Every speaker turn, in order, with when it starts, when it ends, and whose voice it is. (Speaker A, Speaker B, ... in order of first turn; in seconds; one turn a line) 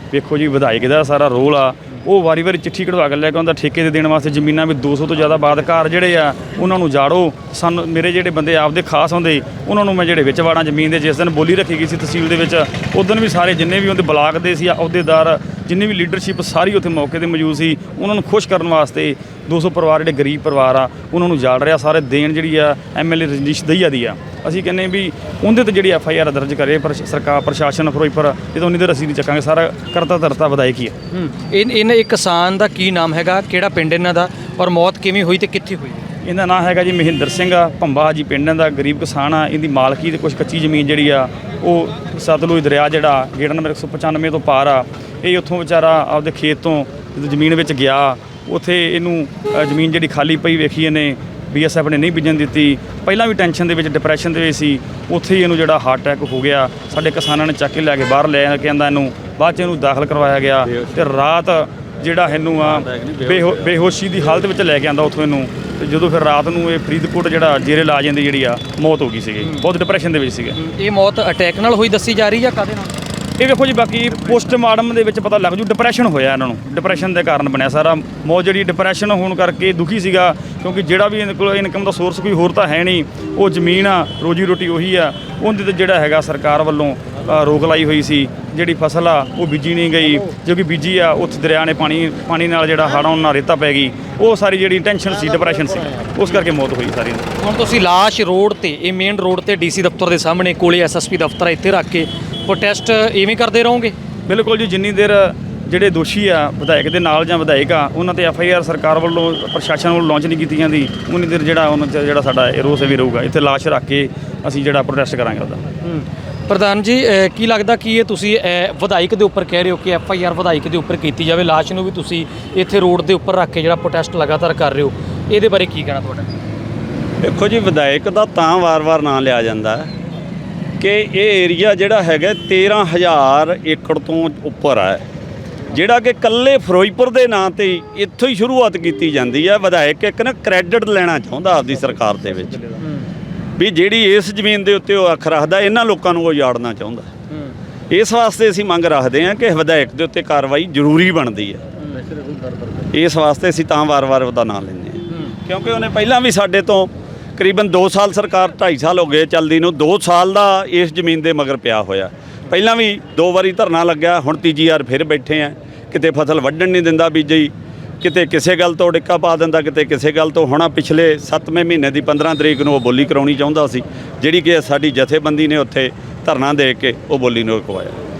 Speaker A: 0.1-30.9
Speaker B: 31.1-36.0
Speaker A: 36.2-70.5
Speaker C: 62.7-63.7
Speaker B: 70.5-72.9
Speaker A: 73.4-97.3
Speaker B: 97.4-103.9
Speaker A: 104.3-115.6
Speaker B: 115.8-126.3
Speaker C: 127.2-129.9
Speaker C: 130.8-135.0
Speaker C: 135.7-142.7
Speaker C: 143.6-147.1
Speaker C: 147.9-151.6
Speaker C: 152.9-177.9